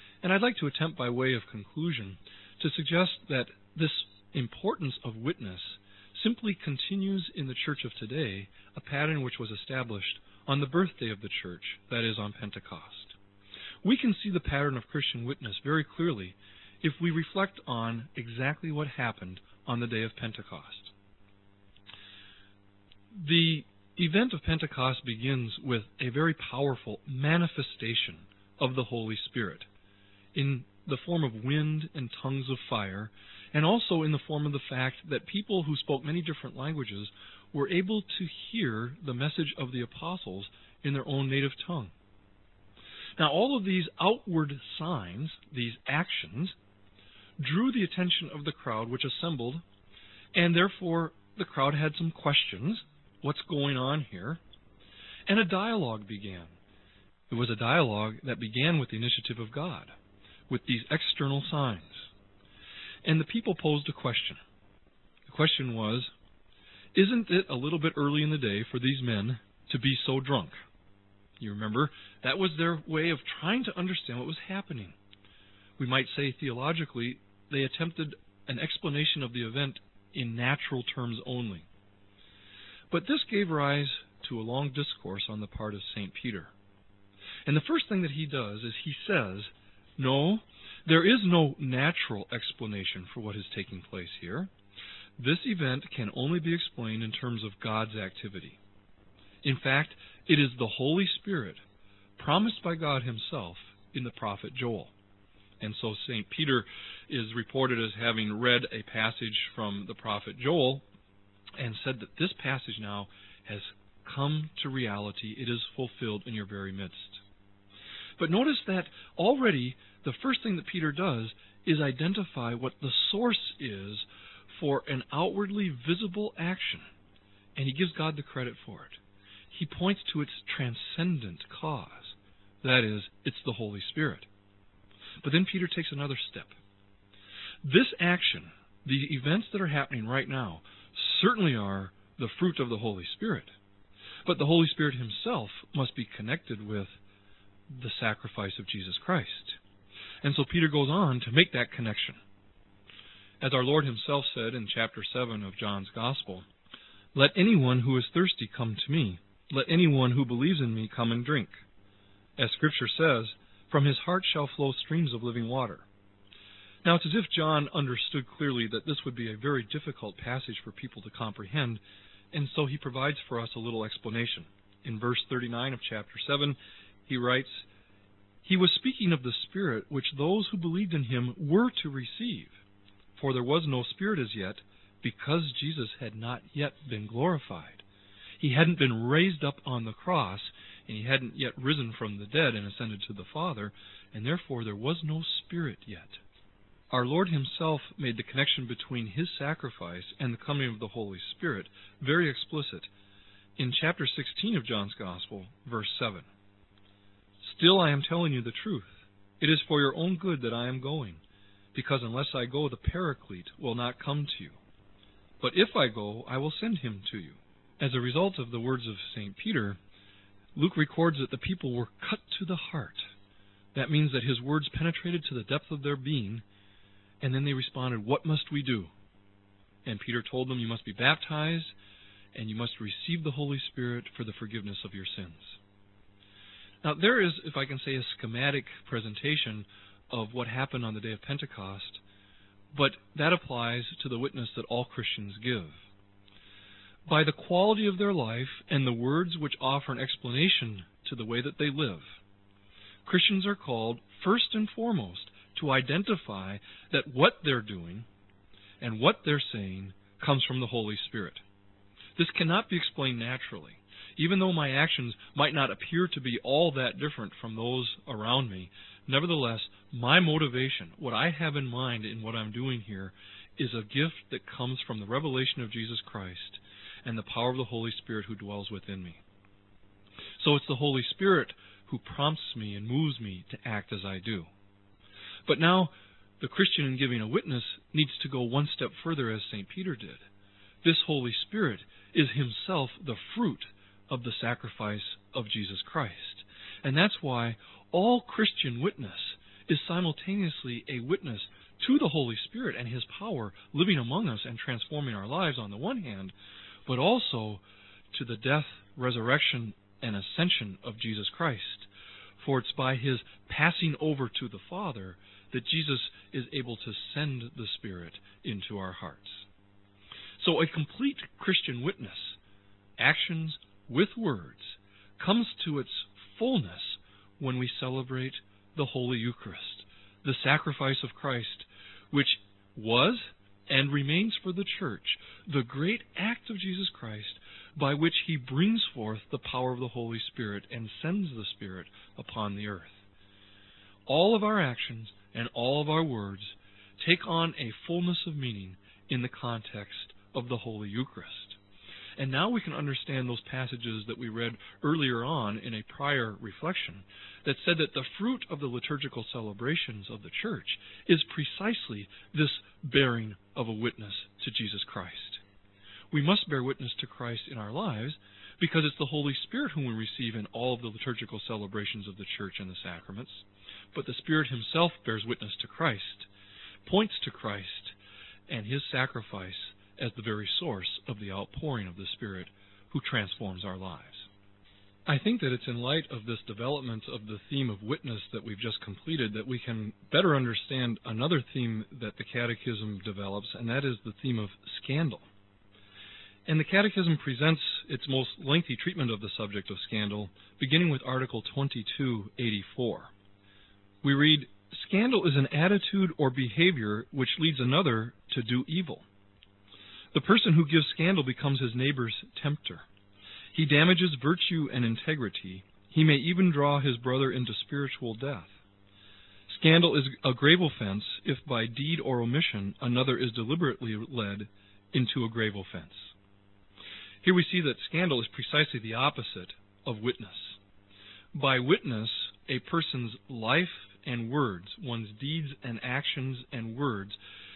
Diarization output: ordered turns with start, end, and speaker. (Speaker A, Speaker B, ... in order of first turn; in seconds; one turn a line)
Speaker A: 0.2-13.2
Speaker A: 13.8-20.9
Speaker A: 23.1-29.7
Speaker A: 30.3-41.9
Speaker A: 43.2-46.5
Speaker A: 47.4-49.6
Speaker A: 50.3-54.4
Speaker A: 55.3-56.6
Speaker A: 57.3-59.9
Speaker A: 60.5-62.1
Speaker A: 63.0-64.4
Speaker A: 65.3-66.1
Speaker A: 66.9-70.6
Speaker A: 71.4-75.0
Speaker A: 75.8-81.7
Speaker A: 82.9-86.5
Speaker A: 87.5-94.5
Speaker A: 95.2-98.6
Speaker A: 99.4-101.6
Speaker A: 102.2-104.9
Speaker A: 105.6-110.8
Speaker A: 111.6-117.2
Speaker A: 118.2-126.8
Speaker A: 127.5-129.0
Speaker A: 129.5-134.3
Speaker A: 135.2-136.6
Speaker A: 137.6-143.5
Speaker A: 144.2-147.0
Speaker A: 147.7-149.6
Speaker A: 150.2-152.2
Speaker A: 153.4-156.5
Speaker A: 157.1-161.6
Speaker A: 162.4-165.8
Speaker A: 166.8-177.7
Speaker A: 178.4-182.6
Speaker A: 183.1-187.8
Speaker A: 188.4-196.2
Speaker A: 196.9-202.9
Speaker A: 203.6-206.3
Speaker A: 207.4-211.2
Speaker A: 211.7-214.6
Speaker A: 215.4-219.8
Speaker A: 220.5-223.1
Speaker A: 223.7-226.4
Speaker A: 227.2-228.9
Speaker A: 229.8-231.7
Speaker A: 232.3-235.6
Speaker A: 236.8-242.0
Speaker A: 242.7-245.8
Speaker A: 247.1-252.2
Speaker A: 253.0-258.1
Speaker A: 258.8-261.4
Speaker A: 262.1-279.2
Speaker A: 280.4-284.5
Speaker A: 285.4-290.2
Speaker A: 290.8-306.3
Speaker A: 306.9-319.4
Speaker A: 320.4-322.4
Speaker A: 323.0-343.0
Speaker A: 344.1-351.6
Speaker A: 352.2-365.4
Speaker A: 366.1-376.3
Speaker A: 376.8-377.9
Speaker A: 378.5-384.3
Speaker A: 385.1-395.2
Speaker A: 396.4-403.1
Speaker A: 404.0-409.1
Speaker A: 410.1-412.9
Speaker A: 413.5-418.5
Speaker A: 419.5-426.1
Speaker A: 427.2-430.6
Speaker A: 431.3-437.2